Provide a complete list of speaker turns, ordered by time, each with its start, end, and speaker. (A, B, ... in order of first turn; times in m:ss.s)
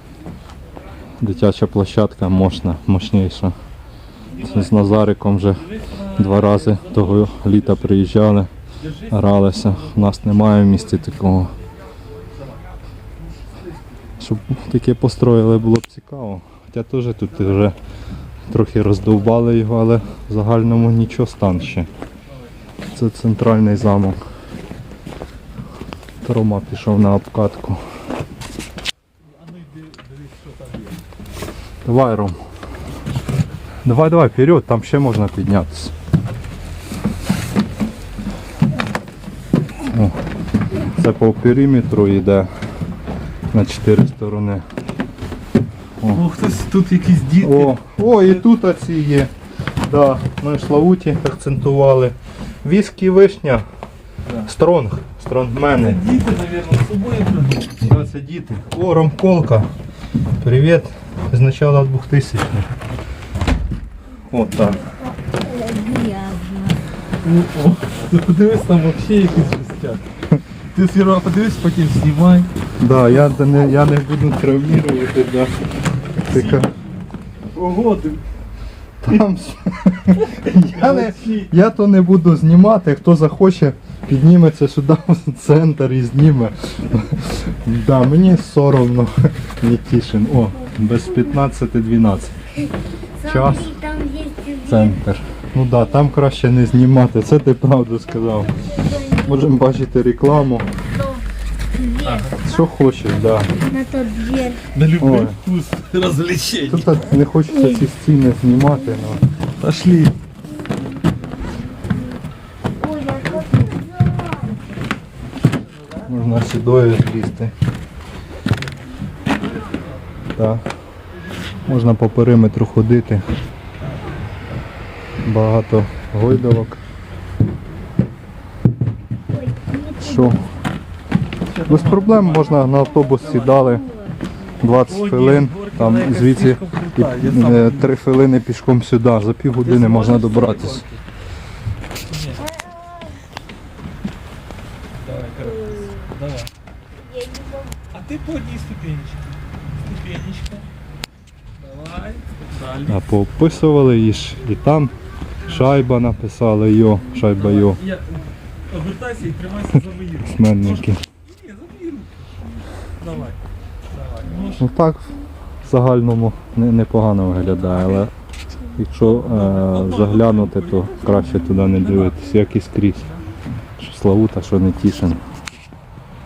0:01.2-0:03.5 A
0:04.3-0:04.9 B
0:04.4-0:08.5 A
0:05.6-0:07.9 B
0:08.8-0:10.0 B
0:09.0-0:11.5 A
0:14.2-0:17.8 A
0:18.5-0:21.9 A
0:22.9-0:24.2 A
0:26.2-0:27.8 A
0:29.3-0:31.0 B
0:31.8-0:32.4 A
0:33.8-0:35.9 A
0:39.8-0:40.2 A
0:40.8-0:42.5 A
0:43.5-0:44.6 A
0:46.1-0:47.8 B
0:47.4-0:49.3 A
0:49.8-0:53.6 A
0:54.3-0:56.0 A
0:55.8-0:57.8 B
0:57.8-0:59.7 A
1:00.4-1:02.7 A
1:04.3-1:04.8 A
1:05.0-1:06.8 C
1:07.2-1:10.1 B
1:10.7-1:12.5 B
1:12.8-1:15.5 A
1:16.2-1:16.7 A
1:16.3-1:16.6 B
1:17.5-1:18.2 B
1:19.0-1:32.3 A
1:20.3-1:21.5 B
1:33.2-1:35.0 C
1:33.2-1:33.7 A
1:34.6-1:40.7 A
1:38.6-1:39.4 C
1:40.8-1:42.6 C
1:42.0-1:42.4 B
1:42.4-1:43.5 A
1:43.5-1:44.6 C
1:44.7-1:47.1 B
1:45.0-1:45.4 A
1:46.7-1:49.2 A
1:47.5-1:47.8 C
1:49.6-1:50.1 B
1:50.7-1:51.6 C
1:52.8-1:54.6 C
1:56.0-1:57.5 A
2:00.4-2:00.6 A
2:01.6-2:03.3 A
2:05.2-2:06.8 A
2:09.3-2:10.4 C
2:10.0-2:10.4 A
2:11.5-2:12.6 B
2:11.6-2:13.8 A
2:12.7-2:14.4 C
2:13.3-2:13.6 B
2:14.6-2:20.8 A
2:14.8-2:17.9 B
2:19.6-2:21.0 B
2:22.1-2:22.5 B
2:22.5-2:23.2 C
2:25.0-2:26.5 B
2:25.3-2:26.1 C
2:27.0-2:27.8 C
2:27.9-2:30.6 B
2:31.6-2:33.1 B
2:32.8-2:34.9 A
2:35.4-2:37.8 A
2:37.3-2:42.2 B
2:40.2-2:41.0 A
2:42.8-2:43.4 B
2:43.9-2:44.7 B
2:44.6-2:48.1 A
2:48.8-2:53.1 A
2:49.2-2:52.3 B
2:53.8-2:55.2 A